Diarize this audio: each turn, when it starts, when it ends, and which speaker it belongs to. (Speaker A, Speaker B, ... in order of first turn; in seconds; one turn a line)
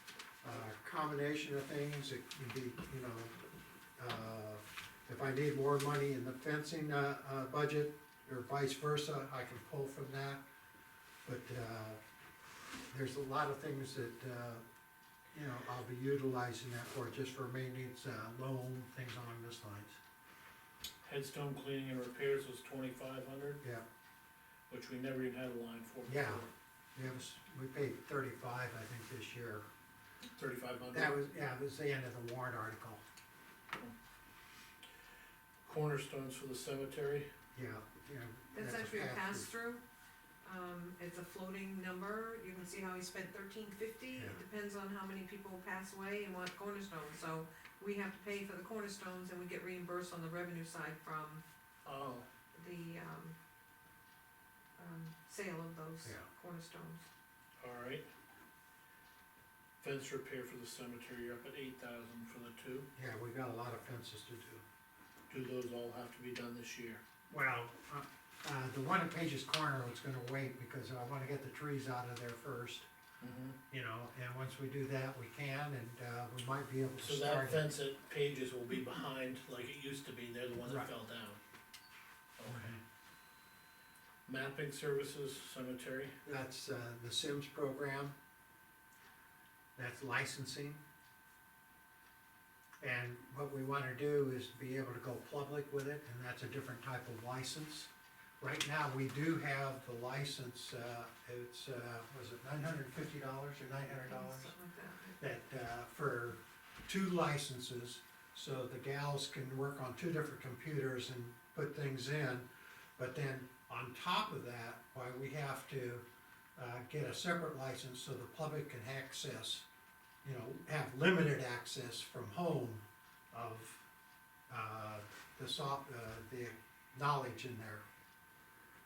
Speaker A: 0.4-3.4
Speaker A: 4.0-10.4
Speaker A: 11.2-12.0
Speaker A: 12.9-14.6
Speaker A: 15.3-20.0
Speaker B: 21.1-23.6
Speaker B: 24.7-26.5
Speaker A: 26.1-29.6
Speaker B: 30.4-31.2
Speaker A: 30.9-33.0
Speaker B: 35.6-37.3
Speaker A: 37.5-39.5
Speaker C: 38.5-39.8
Speaker C: 40.4-51.4
Speaker B: 51.9-52.3
Speaker C: 52.5-53.4
Speaker C: 54.8-57.0
Speaker B: 57.6-58.1
Speaker B: 59.8-62.9
Speaker A: 63.0-64.6
Speaker B: 65.3-67.0
Speaker A: 67.3-72.9
Speaker B: 73.2-73.6
Speaker A: 73.7-77.6
Speaker B: 77.0-81.4
Speaker B: 82.4-82.8
Speaker A: 82.5-82.8
Speaker B: 84.3-86.3
Speaker A: 86.3-88.1
Speaker A: 89.8-90.8
Speaker A: 92.8-97.9
Speaker A: 98.4-104.5
Speaker C: 104.0-105.2
Speaker A: 105.2-116.0
Speaker A: 116.6-119.7
Speaker A: 120.2-123.8
Speaker A: 124.5-127.8